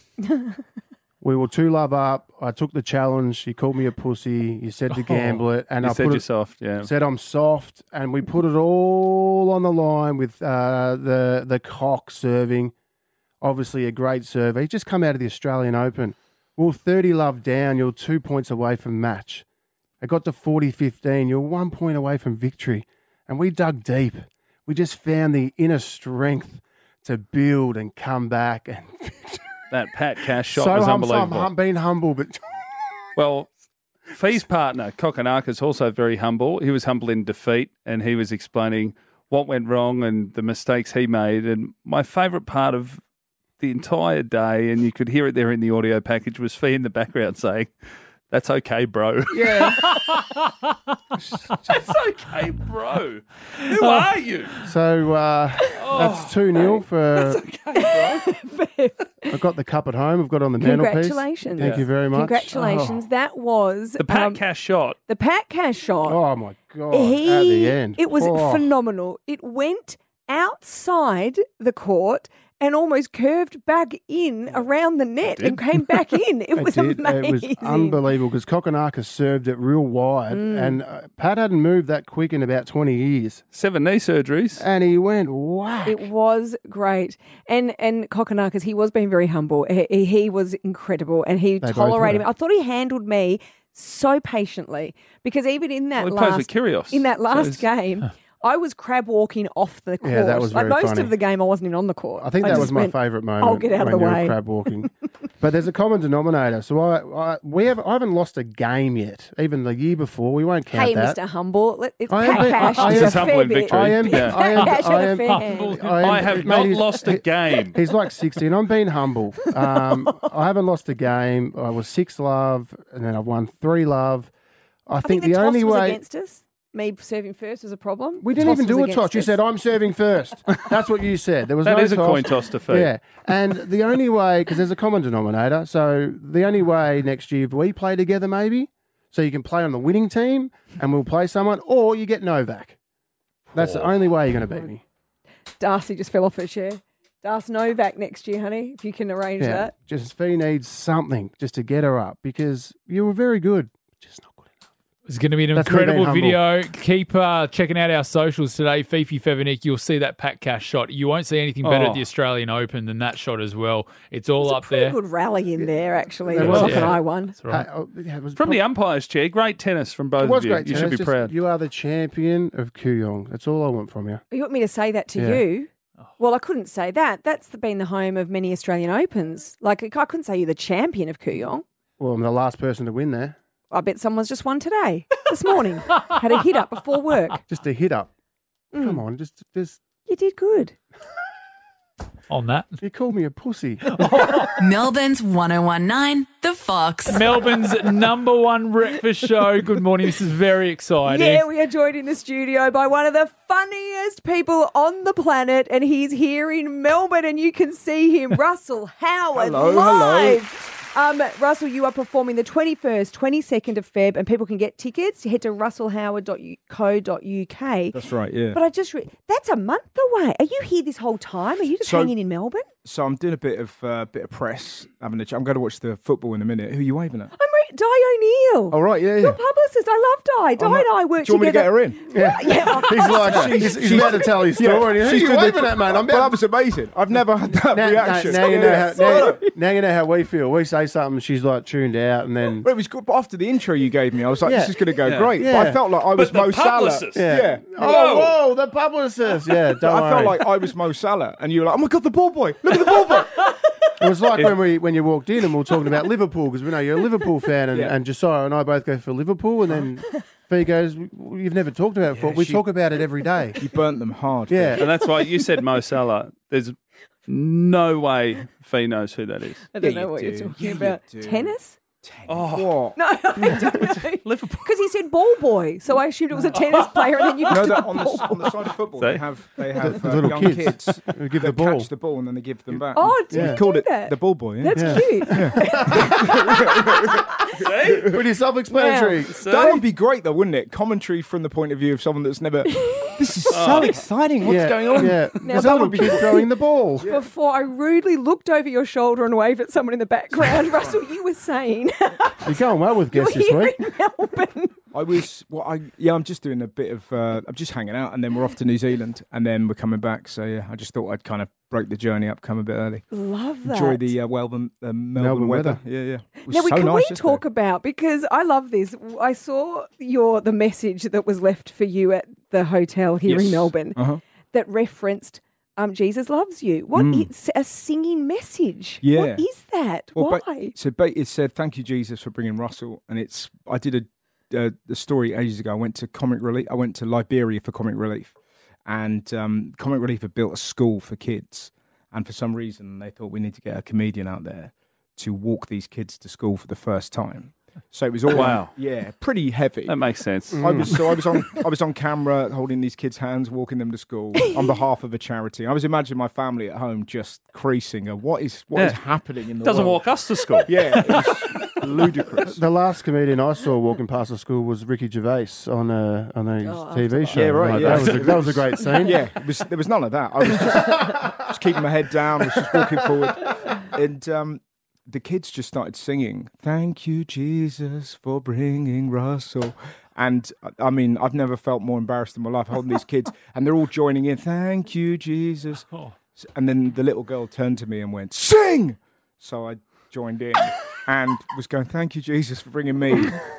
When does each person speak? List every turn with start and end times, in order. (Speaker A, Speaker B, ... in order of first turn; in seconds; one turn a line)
Speaker A: 1.2-6.3
Speaker B: 5.0-6.9
Speaker A: 6.8-12.7
Speaker A: 13.4-19.4
Speaker A: 20.0-29.5
Speaker B: 29.7-31.5
Speaker A: 30.5-32.6
Speaker B: 33.1-33.5
Speaker B: 34.1-43.0
Speaker B: 43.6-47.7
Speaker B: 48.3-49.9
Speaker B: 51.7-54.5
Speaker A: 54.6-57.4
Speaker B: 55.8-58.2
Speaker C: 57.7-59.1
Speaker A: 59.3-63.0
Speaker C: 60.6-64.4
Speaker B: 64.0-65.0
Speaker C: 65.1-66.2
Speaker A: 66.0-68.7
Speaker C: 66.9-78.0
Speaker B: 75.2-75.6
Speaker A: 76.5-83.4
Speaker C: 80.3-80.8
Speaker B: 83.5-84.6
Speaker A: 84.6-86.1
Speaker C: 85.8-104.4
Speaker A: 91.6-92.2
Speaker B: 96.0-97.7
Speaker A: 100.0-101.1
Speaker A: 102.2-111.2
Speaker C: 110.7-115.9
Speaker A: 112.1-124.3
Speaker B: 112.7-114.8
Speaker D: 115.0-116.1
Speaker B: 116.0-117.8
Speaker A: 124.9-126.0
Speaker C: 125.0-129.4
Speaker A: 128.2-142.8
Speaker B: 131.6-132.9
Speaker A: 143.5-144.8
Speaker B: 143.6-143.8
Speaker C: 145.6-149.7
Speaker A: 149.4-154.6
Speaker D: 155.1-165.0
Speaker A: 155.5-156.4
Speaker B: 161.6-162.0
Speaker C: 164.4-167.3
Speaker A: 166.2-168.6
Speaker D: 166.4-167.6
Speaker B: 166.5-166.9
Speaker B: 168.3-171.3
Speaker A: 170.2-174.2
Speaker C: 174.3-181.6
Speaker A: 175.2-175.4
Speaker A: 182.0-183.4
Speaker C: 183.7-187.4
Speaker A: 187.5-188.1
Speaker C: 188.7-189.0
Speaker A: 188.7-189.8
Speaker C: 190.1-190.8
Speaker D: 192.3-192.8
Speaker A: 192.8-194.2
Speaker D: 193.9-194.5
Speaker E: 194.6-197.2
Speaker D: 197.1-201.4
Speaker C: 201.1-218.0
Speaker F: 209.3-210.4
Speaker F: 217.9-218.6
Speaker C: 218.5-222.7
Speaker F: 221.8-222.2
Speaker F: 222.8-227.3
Speaker C: 227.3-234.2
Speaker F: 228.7-229.4
Speaker F: 230.6-239.4
Speaker A: 232.1-236.4
Speaker A: 237.5-242.7
Speaker C: 238.2-239.5
Speaker F: 242.6-248.2
Speaker A: 244.4-244.8
Speaker B: 245.0-245.4
Speaker A: 245.4-245.8
Speaker B: 246.1-248.4
Speaker A: 247.1-250.4
Speaker F: 249.7-253.3
Speaker A: 254.0-263.6
Speaker F: 262.1-262.7
Speaker F: 263.6-264.8
Speaker A: 264.5-264.8
Speaker B: 264.8-266.7
Speaker B: 267.3-269.7
Speaker C: 269.7-271.8
Speaker F: 269.8-273.0
Speaker B: 272.3-272.8
Speaker C: 272.9-278.5
Speaker B: 273.7-274.7
Speaker F: 277.5-288.2
Speaker B: 279.0-279.2
Speaker A: 279.8-281.9
Speaker C: 282.9-287.5
Speaker A: 283.3-283.6
Speaker A: 284.7-286.1
Speaker B: 287.6-288.1
Speaker A: 288.1-289.4
Speaker C: 288.7-289.8
Speaker B: 289.4-289.8
Speaker F: 289.4-296.2
Speaker C: 292.7-293.2
Speaker B: 293.5-294.1
Speaker A: 294.4-297.1
Speaker C: 295.0-296.5
Speaker C: 297.0-302.5
Speaker F: 300.4-301.0
Speaker A: 302.4-303.8
Speaker C: 303.1-304.7
Speaker F: 304.9-313.0
Speaker C: 313.1-314.1
Speaker F: 313.6-317.4
Speaker A: 315.1-315.8
Speaker C: 316.4-330.7
Speaker F: 323.2-324.2
Speaker F: 326.9-327.3
Speaker F: 329.0-329.5
Speaker F: 330.1-338.3
Speaker F: 338.9-349.9
Speaker B: 348.3-348.7
Speaker B: 349.9-350.9
Speaker A: 350.5-350.9
Speaker F: 350.6-360.1
Speaker B: 358.7-359.0
Speaker B: 359.6-361.2
Speaker F: 360.6-362.6
Speaker A: 362.4-369.2
Speaker C: 366.6-369.1
Speaker F: 367.3-393.4